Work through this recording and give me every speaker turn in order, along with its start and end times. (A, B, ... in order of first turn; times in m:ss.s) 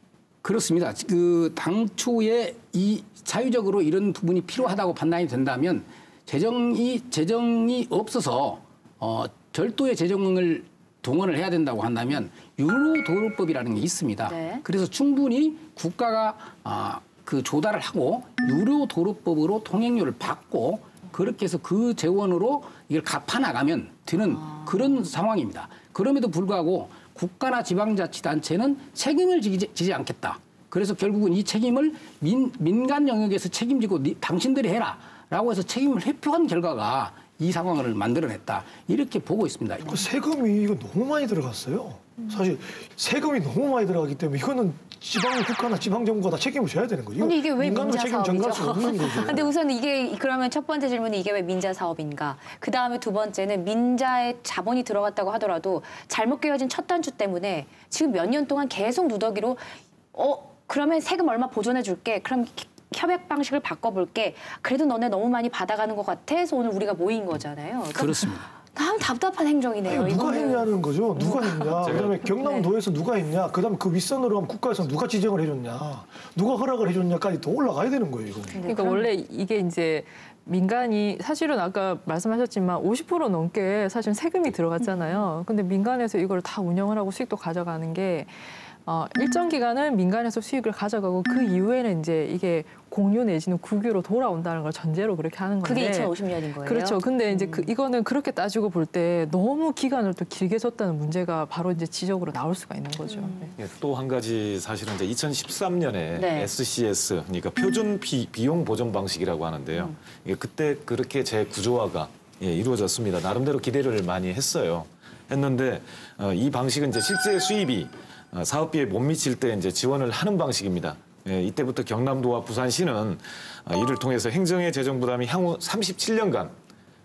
0:00.4-0:40.0 A
0:14.2-0:14.6 B
0:24.3-0:24.7 B
0:39.8-0:49.5 C
0:47.2-1:12.7 B
1:08.0-1:08.4 A
1:09.9-1:18.6 C
1:11.8-1:12.2 D
1:18.5-1:19.1 B
1:18.6-1:43.5 E
1:35.6-1:37.7 B
1:43.1-1:43.5 B
1:43.6-2:06.6 D
1:46.2-1:46.5 B